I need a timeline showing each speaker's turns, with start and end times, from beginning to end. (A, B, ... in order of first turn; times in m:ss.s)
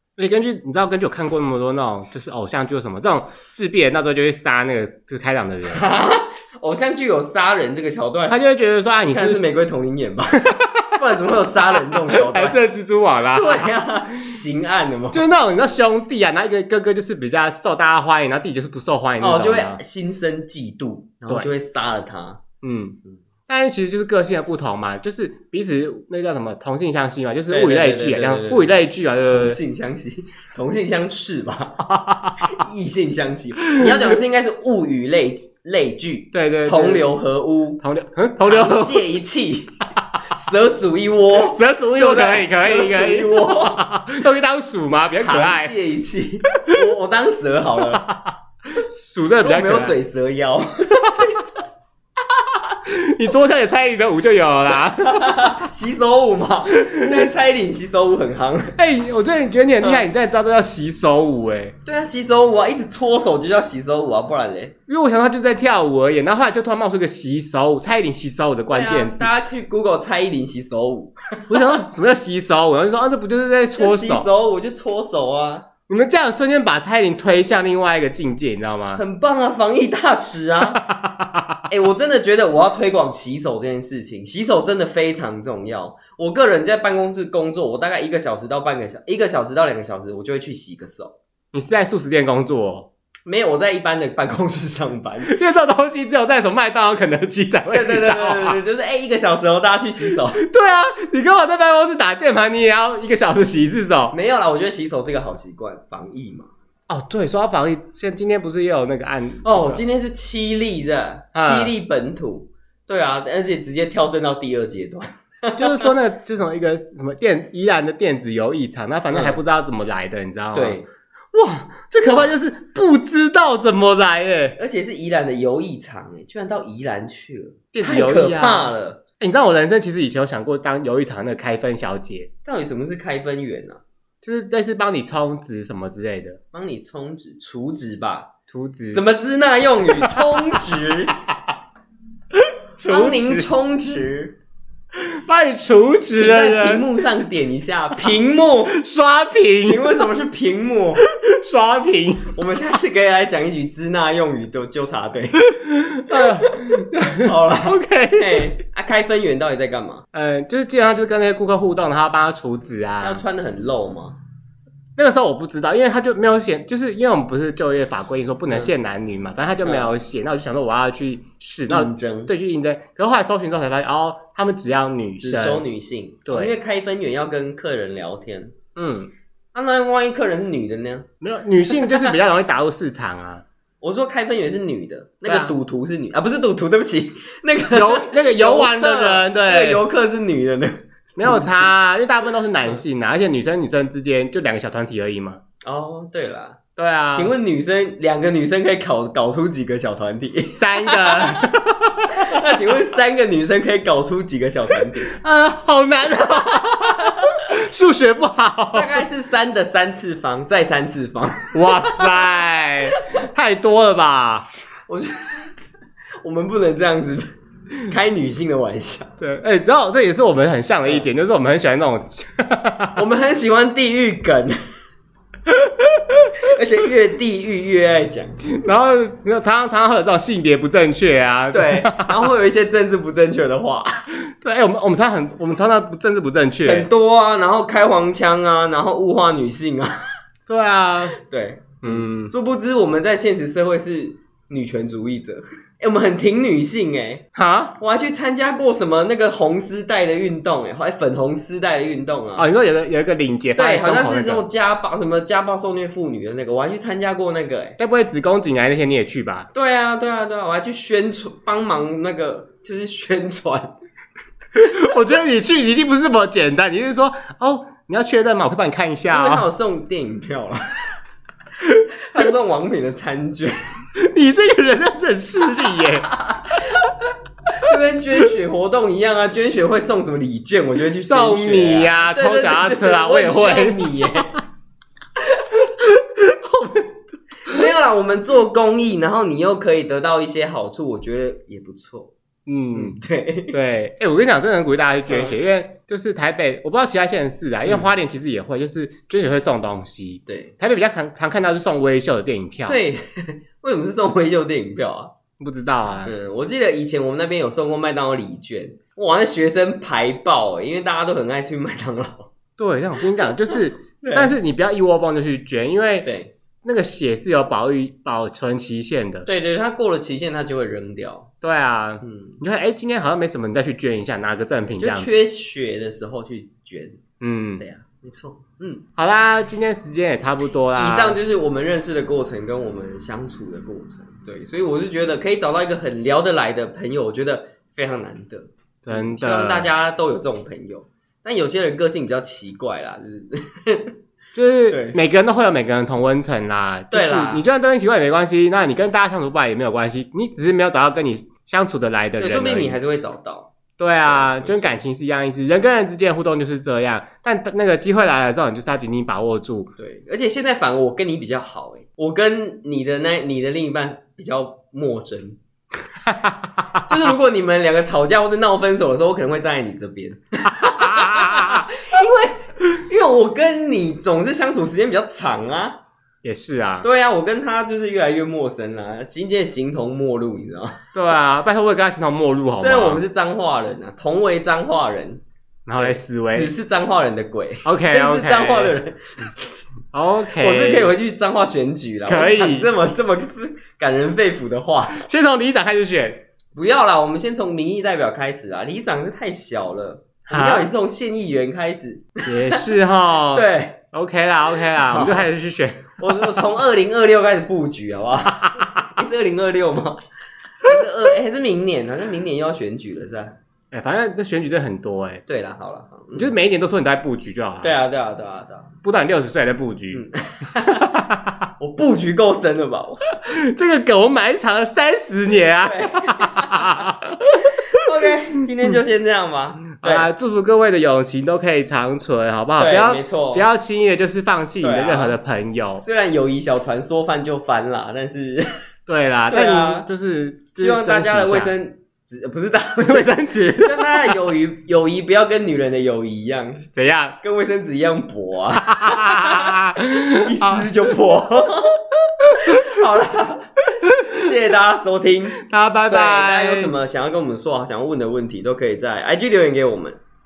0:00.2-0:05.8 A
0:05.7-0:08.4 B
0:08.3-0:09.4 A
0:09.0-0:12.6 B
0:10.5-0:11.0 A
0:11.9-0:14.2 A
0:13.3-0:15.2 B
0:15.1-0:19.8 A
0:19.2-0:22.4 B
0:22.6-0:29.6 A
0:27.5-0:28.7 B
0:29.3-0:31.8 B
0:31.9-0:32.5 A
0:32.4-0:37.8 B
0:33.6-0:34.2 A
0:36.3-0:37.1 A
0:37.8-0:39.0 A
0:38.4-0:43.8 B
0:41.5-0:45.7 A
0:45.2-0:48.0 B
0:47.9-0:50.0 A
0:49.4-0:51.6 B
0:52.7-0:55.6 A
0:55.0-0:58.7 B
0:56.7-0:57.2 A
0:58.8-1:01.8 A
0:59.8-1:00.0 B
1:01.8-1:04.7 B
1:04.9-1:09.3 A
1:08.7-1:11.8 B
1:11.5-1:14.3 A
1:13.7-1:15.7 B
1:15.9-1:19.0 A
1:19.0-1:20.8 B
1:20.6-1:21.6 A
1:21.7-1:31.1 B
1:31.5-1:32.9 A
1:33.2-1:35.3 B
1:35.2-1:38.6 A
1:37.7-1:40.4 B
1:40.4-1:44.1 A
1:44.1-1:46.5 B
1:46.9-1:49.8 A
1:49.4-1:55.9 B
1:51.3-1:51.7 A
1:55.6-2:00.8 A
1:59.1-1:59.4 B
2:00.5-2:00.8 B
2:01.3-2:04.6 A
2:04.6-2:09.0 B
2:07.7-2:12.3 A
2:12.4-2:13.8 B
2:14.2-2:16.4 A
2:16.5-2:18.3 B
2:18.5-2:19.0 A
2:18.9-2:21.1 B
2:20.0-2:20.6 A
2:22.4-2:23.5 A
2:22.8-2:24.4 B
2:25.0-2:27.0 A
2:26.1-2:28.8 B
2:28.7-2:30.0 A
2:29.6-2:31.0 B
2:31.1-2:32.3 A
2:32.3-2:35.4 B
2:35.4-2:38.6 A
2:36.1-2:40.0 B
2:40.1-2:43.2 A
2:43.0-2:44.2 B
2:45.0-2:55.6 A
2:49.6-2:49.9 B
2:51.7-2:52.3 B
2:55.2-2:58.5 B
2:56.2-2:56.5 A
2:58.8-2:59.1 A
2:59.5-3:01.1 B
3:01.2-3:03.4 A
3:01.7-3:02.1 B
3:03.8-3:11.7 B
3:05.2-3:05.6 A
3:07.7-3:09.8 A
3:11.2-3:15.4 A
3:15.6-3:16.6 B
3:16.8-3:17.3 A
3:17.1-3:21.5 B
3:20.6-3:22.4 A
3:22.2-3:25.1 B
3:25.1-3:28.9 A
3:28.7-3:32.2 B
3:31.5-3:34.5 A
3:34.9-3:35.5 B
3:36.2-3:37.3 B
3:37.9-3:39.1 B
3:39.2-3:43.0 A
3:43.0-3:44.6 B
3:45.5-3:46.3 A
3:46.4-3:48.4 B
3:48.4-3:52.3 A
3:51.5-3:54.0 B
3:54.4-3:56.9 A
3:56.6-3:59.9 B
4:00.5-4:01.2 A
4:01.2-4:07.2 B
4:01.8-4:02.3 A
4:07.4-4:07.8 A
4:07.8-4:12.5 B
4:12.4-4:14.4 A
4:13.6-4:17.8 B
4:17.8-4:19.5 A
4:19.5-4:23.7 B
4:24.6-4:29.4 A
4:29.1-4:30.6 B
4:32.1-4:33.5 B
4:34.0-4:36.2 A
4:36.2-4:36.7 B
4:37.6-4:44.3 B
4:41.0-4:44.4 A
4:45.5-4:47.6 A
4:47.5-4:52.1 B
4:52.4-4:53.0 A
4:52.7-4:53.6 B
4:53.5-5:02.8 A
4:55.1-4:55.4 B
4:57.6-4:57.9 B
5:00.3-5:00.5 B
5:02.7-5:05.1 B
5:05.4-5:06.1 A
5:06.0-5:12.3 B
5:12.6-5:16.1 A
5:13.5-5:14.4 B
5:16.0-5:16.3 B
5:16.6-5:19.3 A
5:19.2-5:21.3 B
5:21.4-5:25.1 A
5:22.0-5:22.4 B
5:24.8-5:27.0 B
5:27.2-5:27.6 A
5:27.6-5:28.8 B
5:29.0-5:31.2 A
5:30.7-5:43.9 B
5:38.8-5:39.7 A
5:44.3-5:52.8 A
5:44.7-5:45.0 B
5:46.9-5:47.4 B
5:52.2-5:53.5 B
5:53.8-5:59.7 A
5:54.0-5:54.8 B
5:59.8-6:05.4 B
6:06.0-6:06.8 A
6:06.9-6:15.8 B
6:10.5-6:11.7 A
6:16.2-6:16.9 A
6:16.8-6:20.8 B
6:20.9-6:23.0 A
6:22.6-6:25.2 B
6:25.6-6:26.5 A
6:25.8-6:29.5 B
6:27.6-6:28.8 A
6:29.9-6:30.9 A
6:30.4-6:35.0 B
6:32.1-6:32.7 A
6:34.9-6:36.2 A
6:36.5-6:42.6 B
6:40.3-6:40.7 A
6:42.2-6:46.3 A
6:43.3-6:43.8 B
6:44.7-6:45.3 B
6:46.0-6:50.0 B
6:48.4-6:48.9 A
6:50.6-6:53.4 B
6:53.7-6:55.2 A
6:55.3-6:56.3 B
6:56.1-6:57.8 A
6:57.6-6:58.7 B
6:58.8-7:00.0 A
6:59.9-7:00.9 B
7:00.7-7:01.4 A
7:01.6-7:03.0 B
7:03.2-7:08.4 A
7:05.6-7:06.9 B
7:07.7-7:10.1 B
7:09.7-7:15.8 A
7:12.6-7:13.5 B
7:14.6-7:15.2 B
7:15.8-7:18.4 B
7:18.9-7:21.5 A
7:19.3-7:19.9 B
7:20.6-7:26.7 B
7:22.8-7:24.2 A
7:26.7-7:27.2 A
7:27.2-7:29.5 B
7:28.6-7:30.6 A
7:30.2-7:31.8 B
7:32.2-7:32.7 A
7:32.3-7:35.4 B
7:33.8-7:34.2 A
7:35.4-7:36.7 A
7:35.9-7:40.0 B